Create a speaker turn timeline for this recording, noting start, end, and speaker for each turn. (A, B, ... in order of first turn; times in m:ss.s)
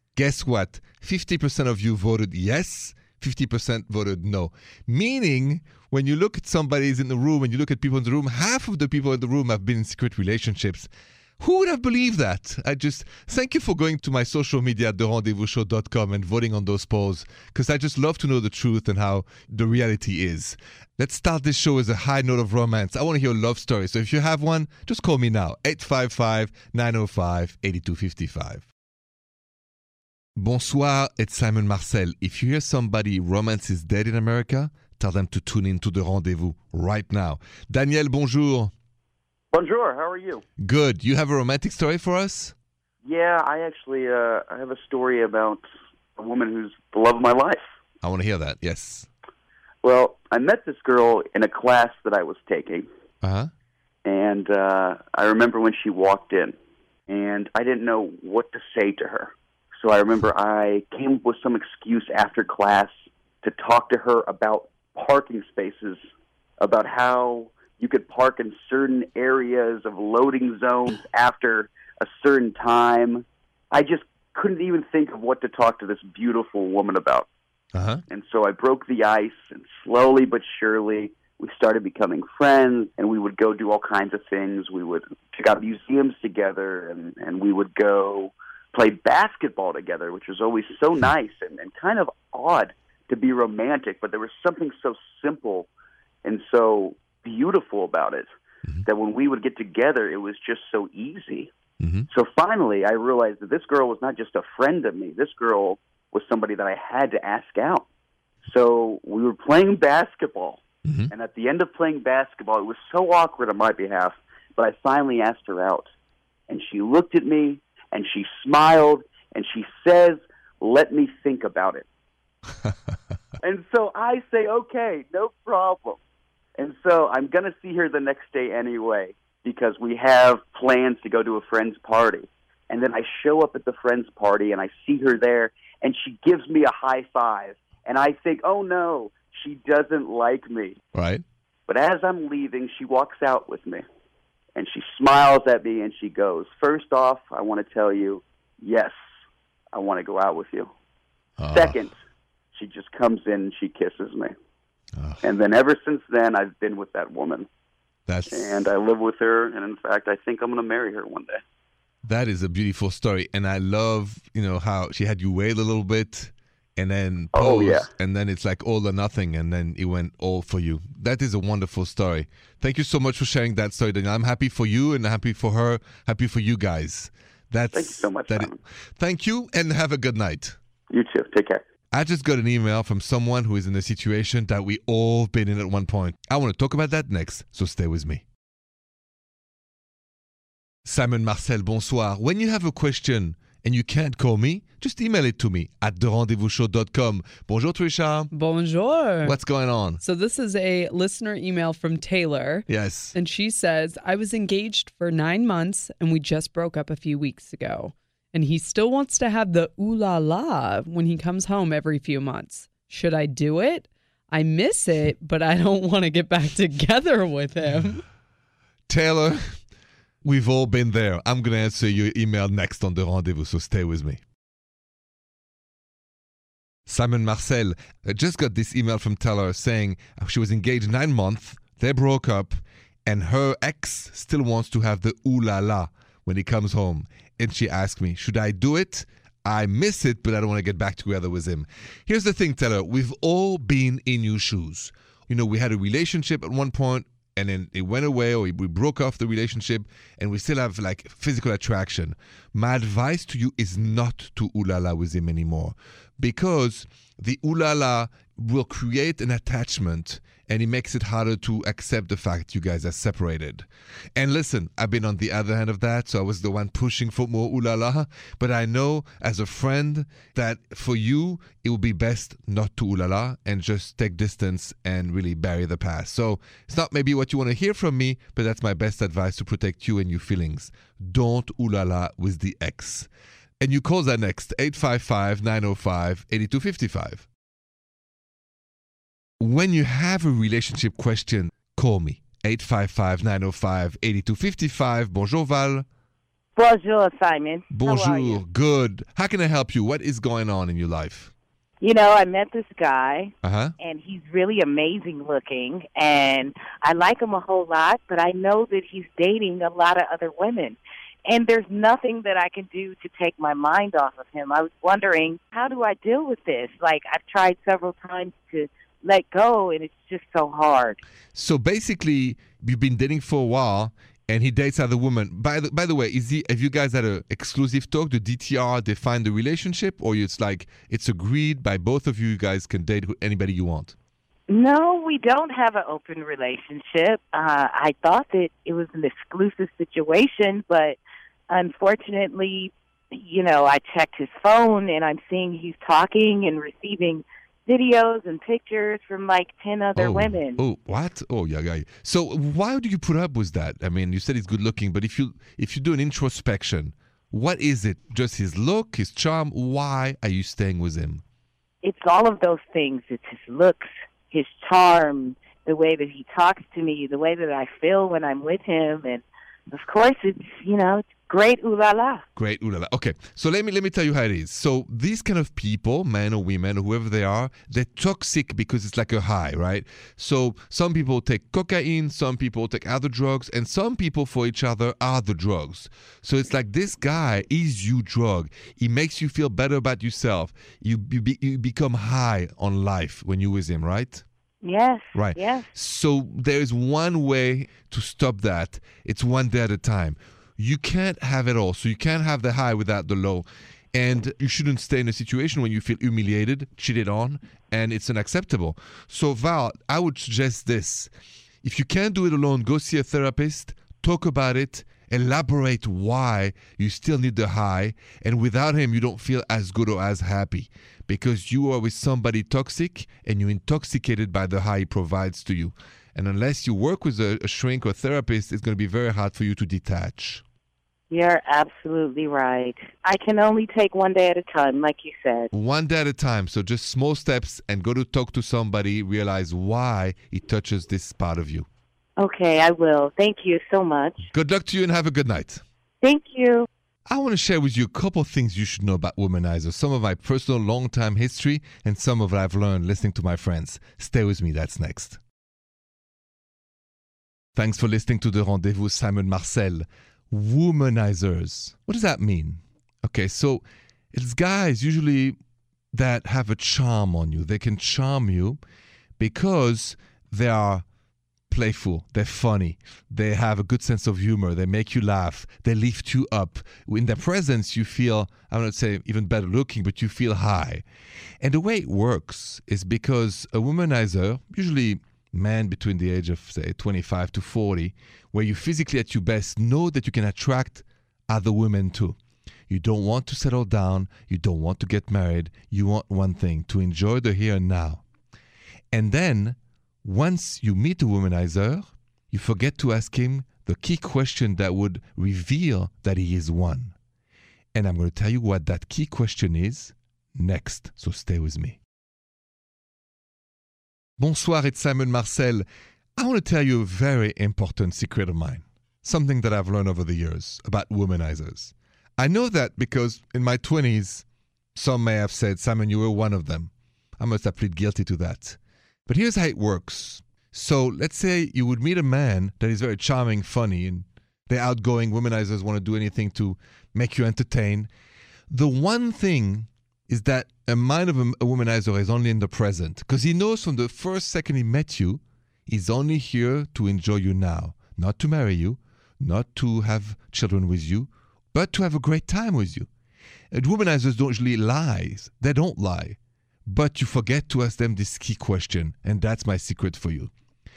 0:00.2-0:28.7 A
0:30.4-0:38.7 A
0:39.5-0:40.4 B
0:40.6-0:42.5 A
0:43.0-0:45.6 B
0:46.2-0:47.6 B
0:48.0-0:49.1 A
0:49.8-0:52.9 B
0:53.2-0:53.5 A
0:54.0-0:56.5 B
0:57.1-1:06.0 B
1:06.6-1:17.3 B
1:17.7-1:18.0 A
1:18.1-1:35.7 B
1:36.2-1:38.3 B
1:38.8-1:41.5 B
1:41.8-1:42.1 A
1:42.1-1:47.8 B
1:48.4-1:50.6 B
1:50.8-1:51.1 A
1:51.1-1:55.8 B
1:56.5-2:01.8 B
2:03.4-2:06.0 B
2:06.6-2:20.8 B
2:20.9-2:21.2 A
2:21.7-2:23.8 B
2:24.5-2:28.9 B
2:29.7-2:30.7 B
2:31.4-2:31.8 A
2:31.5-2:31.9 B
2:32.5-2:34.3 B
2:35.0-2:35.2 A
2:35.2-2:37.5 B
2:38.1-2:38.5 A
2:38.3-2:41.4 B
2:42.0-3:00.6 A
2:47.3-2:47.9 B
2:57.7-2:58.6 B
3:00.9-3:01.6 B
3:01.9-3:08.2 A
3:10.8-3:18.3 A
3:18.3-3:19.5 C
3:19.2-3:20.0 A
3:20.0-3:38.0 C
3:22.7-3:23.1 A
3:38.9-3:39.6 A
3:40.2-3:44.2 A
3:46.9-4:43.1 A
4:43.6-4:47.2 A
4:49.4-4:55.8 A
4:56.6-4:58.4 D
4:57.7-5:01.3 A
5:01.8-5:21.0 D
5:03.4-5:03.7 A
5:21.3-5:33.9 A
5:34.5-5:41.0 D
5:41.5-5:50.6 D
5:50.0-6:01.2 A
6:01.8-6:12.2 D
6:12.4-6:34.2 A
6:34.6-6:35.7 D
6:35.1-6:51.1 A
6:51.6-7:10.4 A
7:11.1-7:15.5 D
7:15.5-7:21.7 A
7:22.2-7:24.3 D
7:24.3-7:25.6 A
7:26.0-7:26.7 D
7:27.1-7:35.2 A
7:37.6-7:45.4 A
7:45.9-7:48.6 A
7:49.2-7:50.8 A
7:51.5-8:00.8 A
8:01.4-8:12.2 A
8:12.7-8:18.0 A
8:18.9-8:26.9 A
8:27.7-8:31.8 A
8:34.2-8:35.6 A
8:36.2-8:44.2 A
8:44.8-8:57.9 A
8:58.5-9:12.9 A
9:13.5-9:20.3 A